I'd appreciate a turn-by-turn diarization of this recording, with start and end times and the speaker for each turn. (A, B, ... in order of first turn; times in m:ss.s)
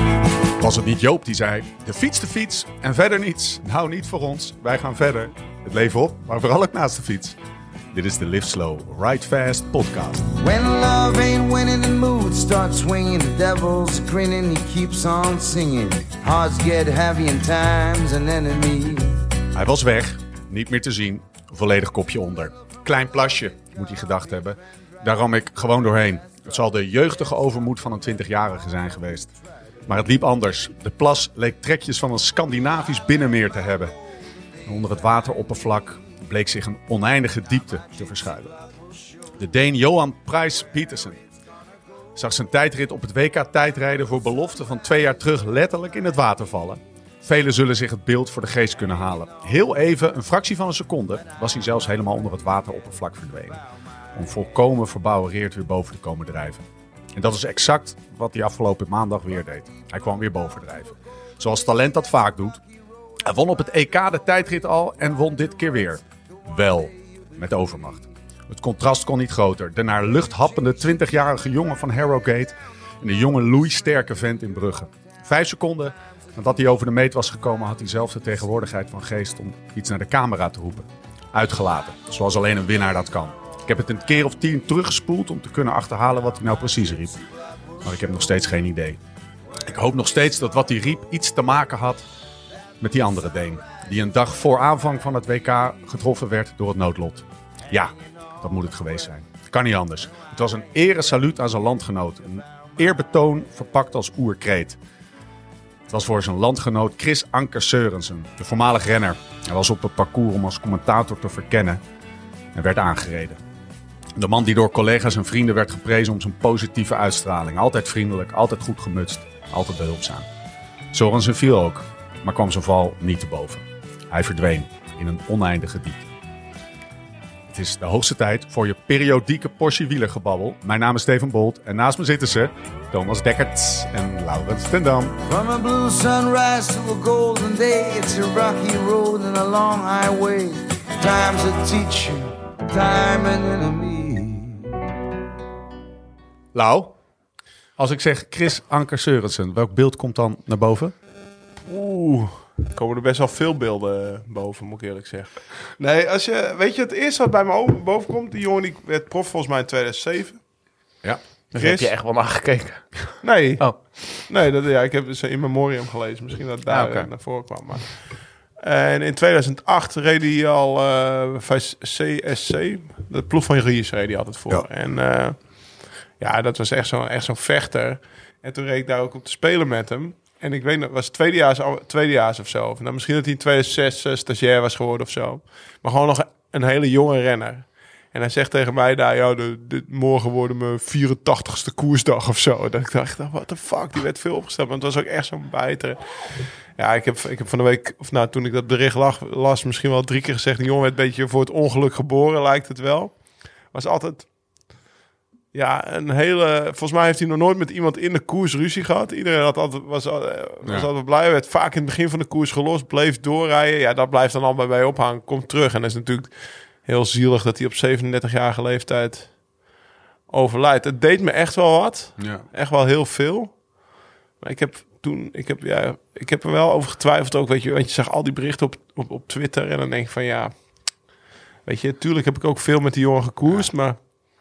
0:00.6-0:07.4 A
0:07.9-0:10.3 A
0:10.4-0:19.3 B
0:19.5-0:29.3 A
0:29.9-0:33.9 A
0:34.6-0:38.5 A
0:39.4-0:41.2 A
0:42.1-0:53.6 A
0:54.1-0:56.6 A
0:57.1-1:02.6 A
1:03.2-1:27.1 A
1:27.8-1:29.0 A
1:29.7-1:32.0 A
1:32.8-1:44.8 A
1:45.9-1:51.8 A
1:52.5-1:53.4 A
1:54.2-2:00.3 A
2:00.9-2:06.1 A
2:07.5-2:15.2 A
2:15.2-2:24.8 B
2:26.5-2:26.9 A
2:27.8-2:30.9 A
2:31.7-2:40.4 C
2:41.5-2:43.1 D
2:41.6-2:41.9 C
2:43.2-2:47.9 C
2:46.7-2:47.1 D
2:48.6-2:55.5 C
2:56.2-3:16.0 C
3:16.8-3:23.1 C
3:23.7-3:24.3 C
3:25.5-3:36.3 C
3:36.8-3:39.3 C
3:40.3-3:43.5 C
3:42.2-3:42.4 A
3:44.4-3:50.5 C
3:51.6-3:54.0 C